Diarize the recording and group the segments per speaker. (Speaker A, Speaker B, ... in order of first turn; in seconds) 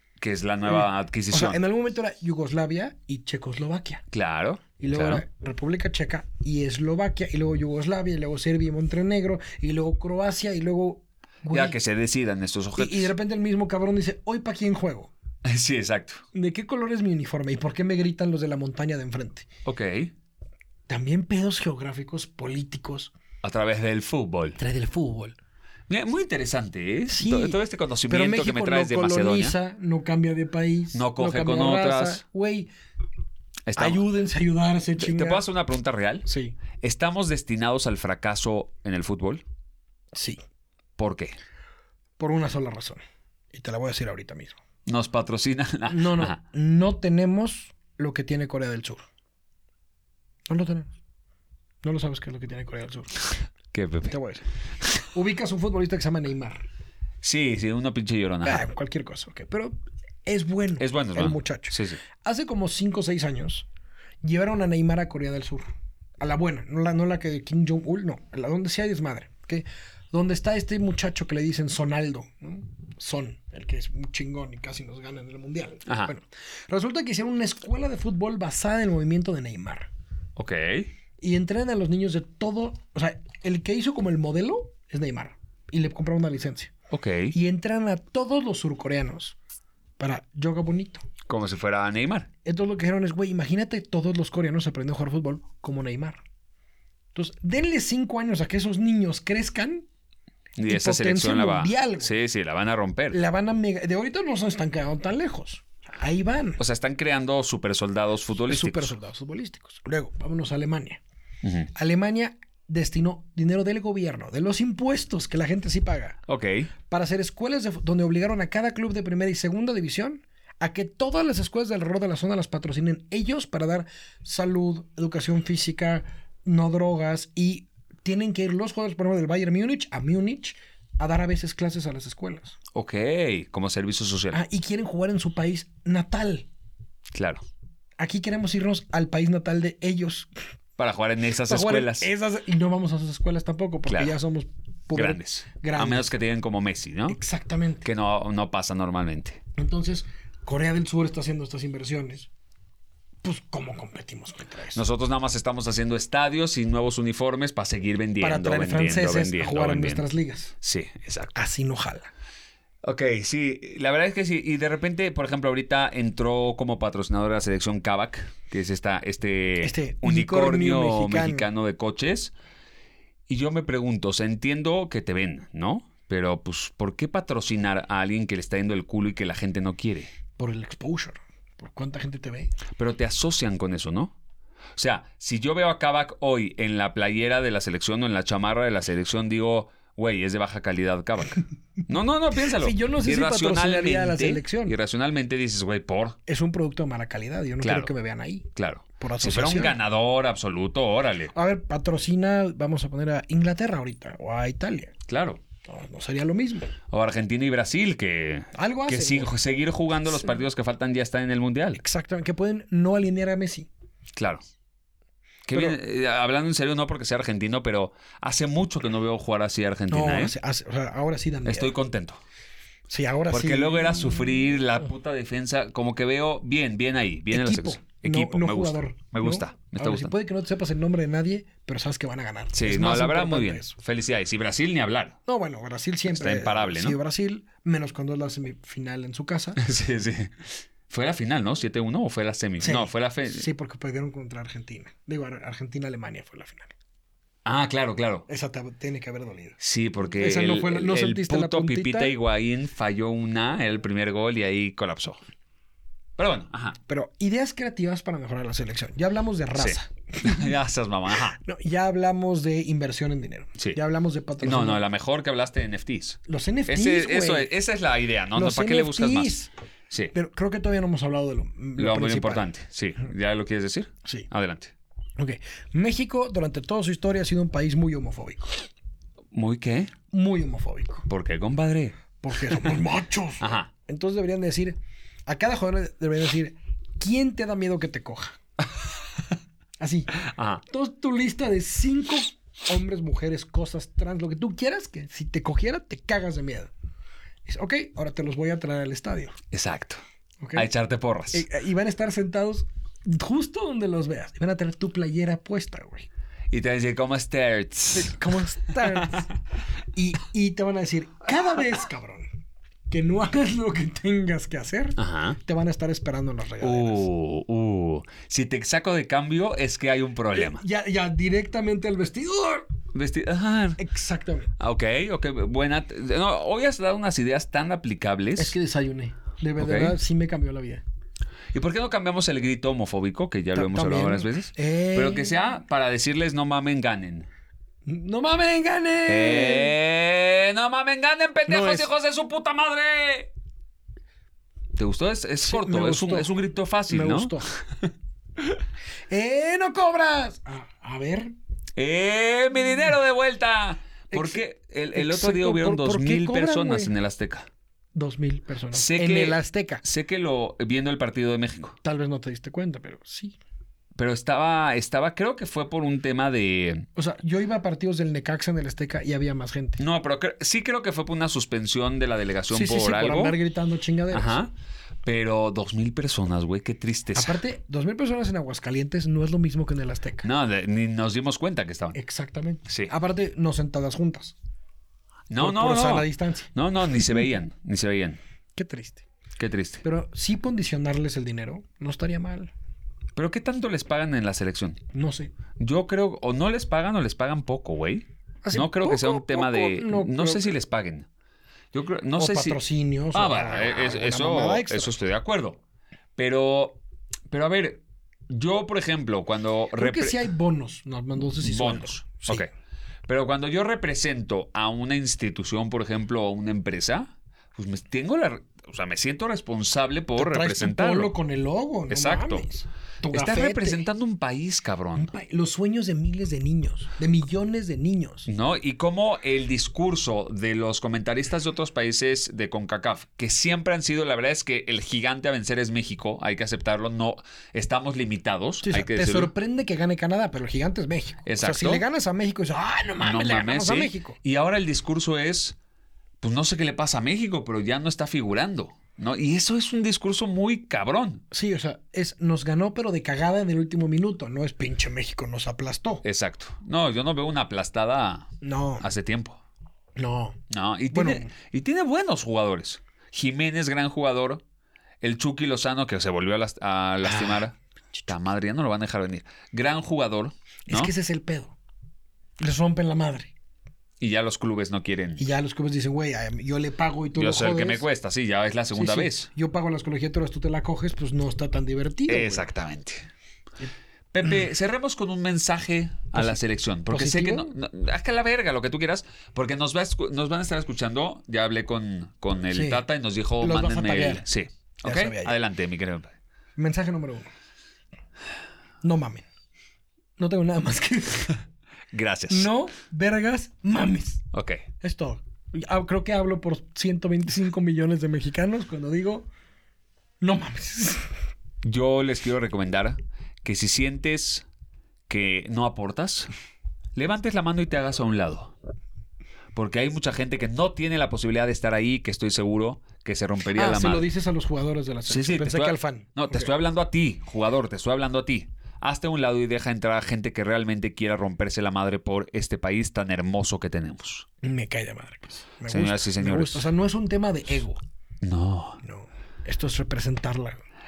Speaker A: 0.2-1.6, 4.1-5.2, 11.5-13.1, 15.4-16.2, 19.6-20.1, 23.4-24.6, 25.9-29.6, 30.9-32.2, 33.7-34.0, 35.0-36.3, 36.8-39.4, 41.0-41.3, 44.9-46.4, 53.7-54.1, 57.2-58.6, 60.8-62.0, 75.9-76.1, 80.3-80.9, 86.9-87.3, 91.3-92.3, 100.6-103.2, 106.6-108.9, 111.4-111.7, 116.3-116.7, 132.7-134.4, 137.1-137.4, 140.8-142.1, 143.9-144.2, 144.9-147.2, 147.8-149.4, 154.7-160.0, 160.6-161.3, 162.8-172.3, 173.3-180.1, 182.8-184.1, 184.8-196.2, 197.6-197.9, 198.5-201.3, 205.1-205.4, 206.9-211.8, 214.2-214.4, 215.5-220.3, 221.4-222.2, 223.3-230.1, 232.5-235.2, 236.1-237.0, 239.6-243.5, 247.4-248.3, 249.6-255.2, 256.2-256.8, 259.6-261.4, 264.4-269.3, 271.8-274.7, 279.3-279.9, 281.1-282.7, 283.4-283.7, 290.1-290.6, 299.5-300.0, 300.5-301.4, 306.5-309.3, 315.0-315.4, 316.6-320.6, 322.9-323.8, 324.6-328.5, 329.6-329.9, 331.5-337.3, 339.1-343.3, 344.7-347.9, 351.8-357.5, 358.7-361.8, 363.9-366.9, 369.8-373.3, 374.1-374.5, 375.0-377.4, 380.2-382.0, 382.7-382.9, 385.3-388.2, 389.4-389.8, 393.1-394.8, 395.6-401.1, 401.7-402.6, 403.1-405.6, 406.1-406.8, 407.3-410.2, 411.4-412.5, 413.1-421.1, 421.9-422.4, 423.1-425.1, 428.3-439.3, 441.2-441.8, 443.0-445.6, 446.2-451.2, 456.0-459.4, 460.5-464.4, 465.0-467.5, 468.1-470.9, 474.0-475.2, 477.1-479.3, 482.1-483.1, 484.1-496.1, 501.9-502.5, 504.3-504.6, 511.6-514.5, 515.1-516.3, 516.9-518.5, 519.5-524.1, 525.1-534.2, 535.7-536.7, 538.2-538.8
Speaker B: 0.6-4.0, 4.8-11.8, 12.8-15.1, 16.3-19.5, 20.9-23.1, 24.6-25.4, 27.1-32.7, 33.8-35.4, 36.2-36.5, 40.1-40.4, 42.2-43.0, 43.5-44.6, 45.9-49.0, 50.5-50.9, 51.8-53.2, 54.1-54.4, 55.1-56.6, 58.4-63.7, 64.2-79.9, 81.2-86.7, 87.3-89.4, 90.0-91.0, 92.4-96.2, 97.1-99.8, 100.7-102.1, 103.1-106.6, 108.4-111.0, 111.7-116.2, 116.9-132.6, 134.3-136.5, 138.0-140.3, 141.4-146.1, 147.1-147.9, 149.5-152.3, 153.2-154.8, 158.2-160.5, 161.3-162.1, 169.6-171.5, 180.4-182.5, 192.3-194.8, 196.3-199.8, 201.3-204.9, 205.6-206.7, 208.5-209.3, 211.7-213.7, 215.5-215.8, 219.9-221.7, 222.9-224.3, 227.3-233.8, 235.2-239.6, 242.6-246.7, 248.3-249.6, 250.2-252.1, 256.9-260.5, 261.3-264.8, 266.2-267.5, 268.3-269.5, 270.1-272.5, 275.2-278.6, 280.1-281.1, 282.2-288.4, 289.8-290.1, 290.6-296.7, 297.4-299.4, 300.4-300.7, 301.3-306.1, 307.9-309.3, 309.9-312.3, 312.9-317.1, 320.3-322.7, 323.8-324.5, 328.4-330.8, 333.5-335.4, 337.8-339.7, 341.5-341.9, 345.4-346.3, 346.9-347.5, 349.1-351.3, 354.1-354.4, 354.9-356.9, 357.9-359.8, 361.8-363.4, 366.9-369.8, 372.5-374.4, 377.1-380.2, 381.9-384.4, 385.4-386.5, 388.5-389.0, 389.8-392.5, 394.9-395.3, 398.4-400.6, 402.2-404.9, 409.8-412.4, 420.1-423.9, 424.9-428.3, 438.6-444.2, 451.3-456.0, 458.4-458.8, 459.9-460.4, 460.9-461.3, 467.0-467.5, 470.7-471.6, 472.4-473.3, 475.2-477.9, 478.7-482.4, 486.1-486.4, 486.9-487.5, 492.5-492.8, 493.4-494.2, 494.8-495.3, 496.6-497.3, 498.8-499.2, 500.2-501.4, 502.3-504.2, 504.8-509.3, 510.2-511.1, 523.5-526.5, 534.4-537.8, 538.8-540.6